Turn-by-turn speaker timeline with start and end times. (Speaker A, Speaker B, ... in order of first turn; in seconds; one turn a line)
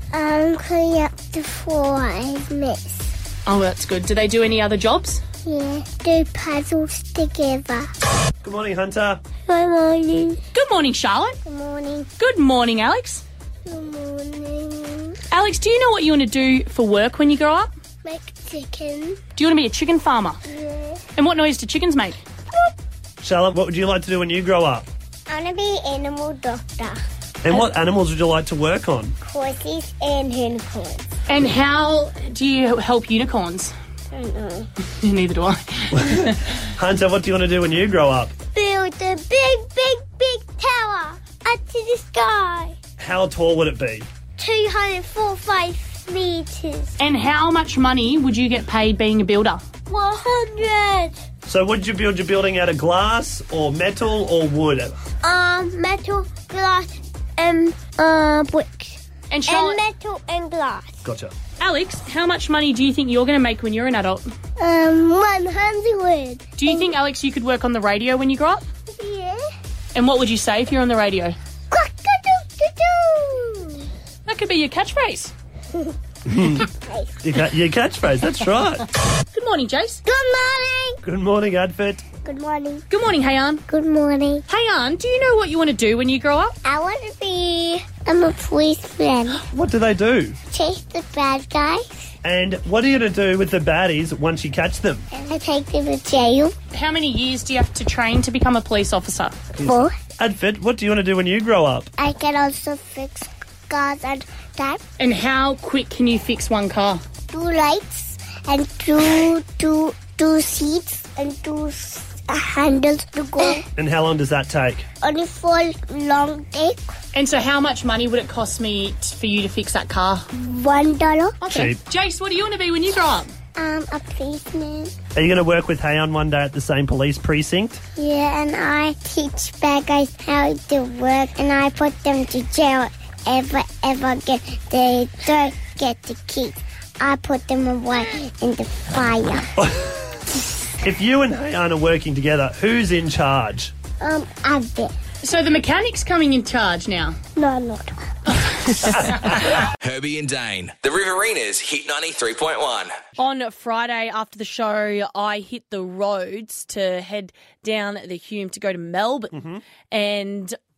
Speaker A: 0.1-3.1
Speaker B: 3.5-5.2
Speaker A: 5.5-7.9
Speaker C: 8.4-9.2
Speaker A: 9.5-10.4
Speaker B: 10.5-11.4
Speaker A: 11.4-12.1
Speaker B: 12.2-13.2
Speaker A: 13.7-15.2
Speaker B: 15.3-17.7
Speaker A: 18.1-19.2
Speaker B: 19.4-20.4
Speaker A: 20.5-21.0
Speaker B: 21.2-22.2
Speaker C: 23.2-24.9
Speaker A: 25.3-27.0
Speaker C: 27.4-29.2
Speaker A: 29.2-31.1
Speaker B: 31.3-33.7
Speaker A: 34.1-34.7
Speaker B: 35.0-36.4
Speaker C: 36.0-38.3
Speaker A: 38.5-42.8
Speaker C: 43.0-44.1
Speaker A: 44.4-47.0
Speaker B: 47.0-49.6
Speaker A: 49.9-51.2
Speaker C: 51.5-55.0
Speaker A: 55.2-61.0
Speaker B: 59.3-59.8
Speaker C: 61.0-61.3
Speaker B: 61.6-64.3
Speaker A: 64.6-66.9
Speaker B: 66.6-68.7
Speaker A: 69.0-69.5
Speaker B: 70.0-71.3
Speaker A: 71.7-73.9
Speaker B: 74.3-75.3
Speaker C: 76.3-76.6
Speaker A: 76.6-77.3
Speaker C: 77.2-78.9
Speaker B: 79.3-80.0
Speaker A: 80.1-81.0
Speaker C: 81.0-82.0
Speaker A: 82.2-82.9
Speaker B: 82.9-83.6
Speaker A: 83.7-84.5
Speaker B: 84.5-86.6
Speaker A: 86.6-89.4
Speaker C: 89.5-90.4
Speaker A: 90.5-92.1
Speaker C: 92.2-95.1
Speaker A: 95.1-96.5
Speaker B: 96.7-99.3
Speaker C: 99.5-101.9
Speaker A: 99.6-99.9
Speaker A: 102.0-104.8
Speaker B: 105.0-107.0
Speaker A: 107.3-113.7
Speaker C: 113.8-114.9
Speaker A: 115.0-116.9
Speaker B: 117.1-120.3
Speaker A: 120.4-121.4
Speaker B: 121.4-123.3
Speaker C: 121.5-121.8
Speaker A: 123.6-124.9
Speaker C: 125.2-127.8
Speaker A: 128.0-139.5
Speaker C: 140.8-143.7
Speaker A: 144.0-144.9
Speaker B: 145.2-147.2
Speaker A: 147.4-148.3
Speaker B: 148.7-149.5
Speaker D: 149.8-151.6
Speaker E: 150.5-152.9
Speaker D: 152.2-152.5
Speaker B: 153.2-159.3
Speaker C: 159.3-159.6
Speaker B: 159.9-160.6